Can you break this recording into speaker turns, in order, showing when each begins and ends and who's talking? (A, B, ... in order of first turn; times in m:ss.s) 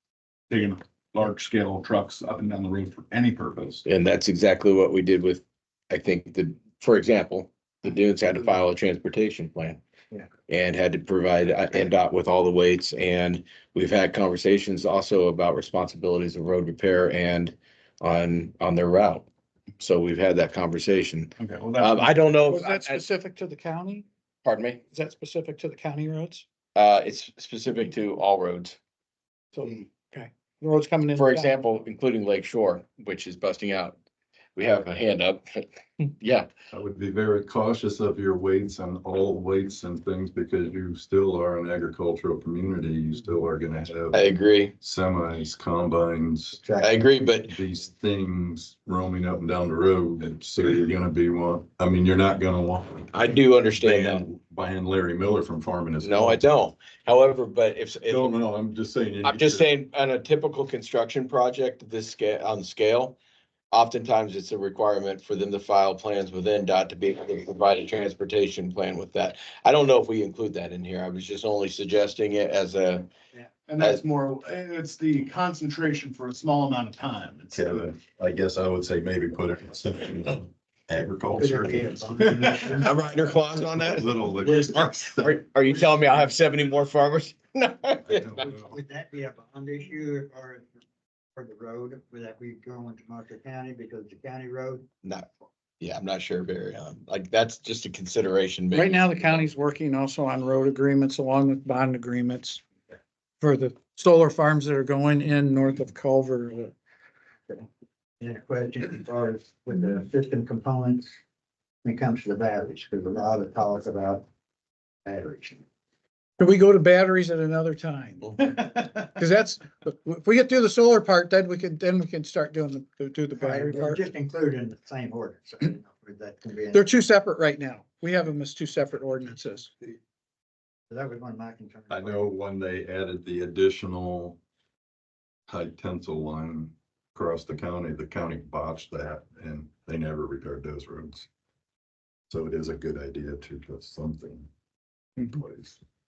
0:00.5-0:03.8 A
0:03.8-0:09.8 B
0:10.5-0:19.3 B
0:19.8-0:23.0 B
0:21.4-0:22.1 A
0:22.5-0:24.1 C
0:24.4-0:24.8 B
0:24.9-0:26.5 C
0:26.8-0:28.8 B
0:29.5-0:31.6 C
0:31.2-0:34.0 B
0:34.6-0:36.5 B
0:36.7-0:44.2 D
0:44.1-0:44.7 B
0:44.8-0:46.6 D
0:46.6-0:47.0 E
0:46.8-0:47.5 B
0:47.4-0:56.4 D
0:53.1-0:54.2 B
0:56.0-0:58.3 B
0:58.1-0:59.7 D
0:59.2-1:03.2 B
1:03.7-1:13.1 B
1:13.7-1:17.7 A
1:13.8-1:14.0 B
1:17.5-1:22.7 D
1:21.4-1:23.0 E
1:22.8-1:28.4 B
1:23.8-1:25.4 D
1:24.2-1:24.9 E
1:28.1-1:30.7 E
1:31.4-1:34.9 E
1:35.8-1:39.4 B
1:38.7-1:42.6 C
1:43.4-1:46.7 C
1:48.2-1:51.2 E
1:51.8-1:54.2 E
1:55.0-1:55.6 E
1:56.4-2:04.0 C
2:03.3-2:06.9 E
2:06.7-2:09.7 C
2:10.9-2:12.3 E
2:11.9-2:14.4 D
2:15.5-2:21.3 D
2:22.3-2:24.5 D
2:25.3-2:25.8 D